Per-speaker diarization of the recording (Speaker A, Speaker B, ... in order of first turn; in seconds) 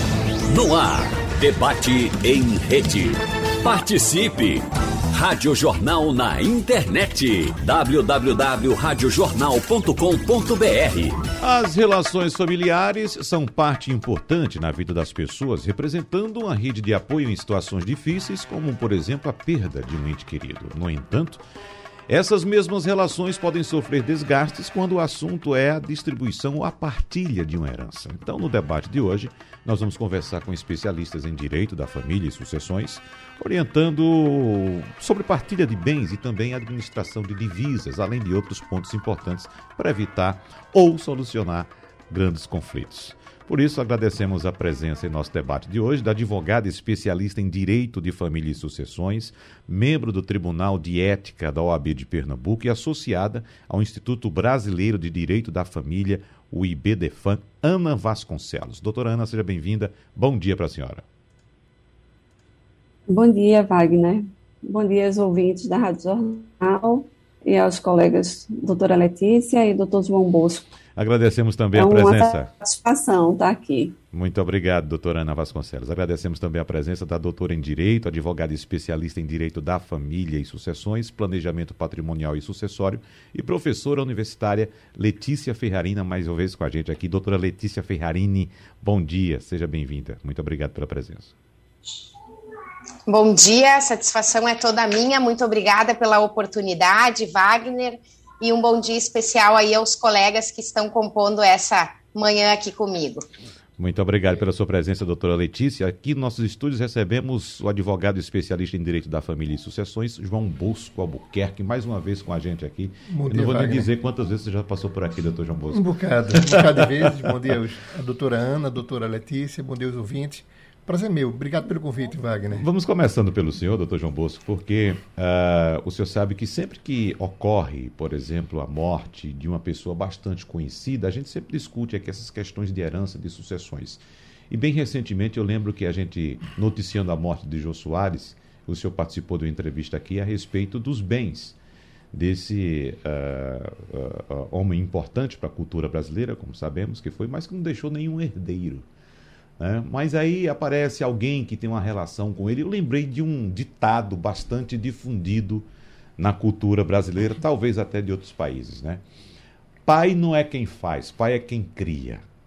Speaker A: 0.5-11.2
Speaker B: 11.4-21.4, 22.1-61.0, 71.0-72.5, 74.1-91.3, 103.8-115.9, 116.4-117.3, 122.5-141.6, 142.1-148.9, 149.6-155.7, 156.2-159.0, 159.9-162.2
Speaker C: 63.1-70.7, 71.7-74.0
Speaker D: 93.1-103.3
Speaker E: 113.1-113.9, 115.7-122.7